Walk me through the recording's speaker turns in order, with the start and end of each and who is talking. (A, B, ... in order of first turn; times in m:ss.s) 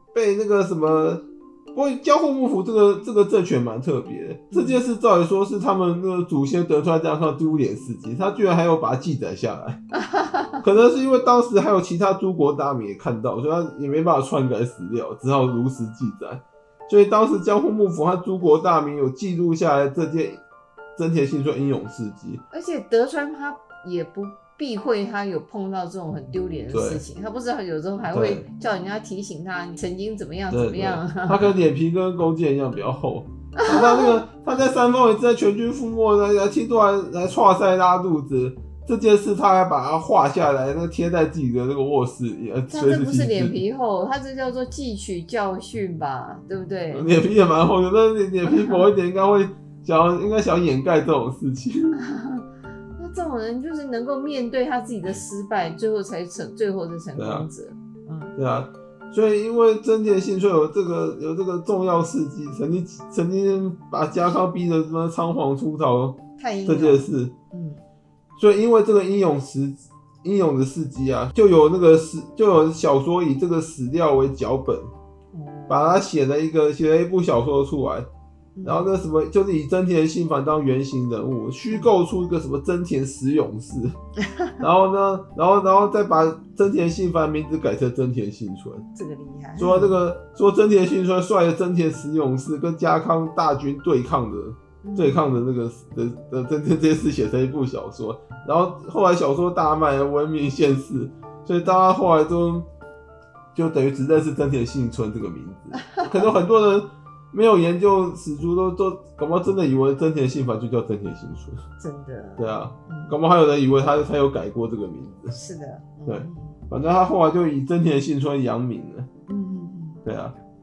0:00.1-0:09.8 A
0:04.5-0:04.8 B
0:09.9-0:10.6 B
0:10.6-0:20.4 A
0:21.0-0:22.4 A
0:22.5-0:31.5 B
0:26.7-0:27.0 A
0:28.1-0:28.4 A
0:30.5-0:43.6 A
0:33.6-0:34.2 B
0:42.7-0:47.1 B
0:46.9-0:52.0 A
0:48.4-0:48.8 B
0:52.0-0:52.4 B
0:53.0-0:58.3 B
0:57.2-0:57.5 A
0:58.4-1:07.3 A
1:06.4-1:07.8 B
1:08.4-1:14.9 A
1:15.3-1:16.0 B
1:15.7-1:18.1 A
1:18.6-1:18.9 B
1:18.6-1:24.0 A
1:24.2-1:24.6 B
1:24.6-1:28.8 A
1:28.9-1:30.0 B
1:29.6-1:42.7 A
1:34.8-1:35.4 B
1:43.5-1:51.6 A
1:45.7-1:46.3 B
1:51.8-1:53.1 B
1:52.4-1:55.3 A
1:55.3-1:56.6 B
1:56.1-1:59.1 A
1:59.3-2:00.0 B
2:00.0-2:00.3 A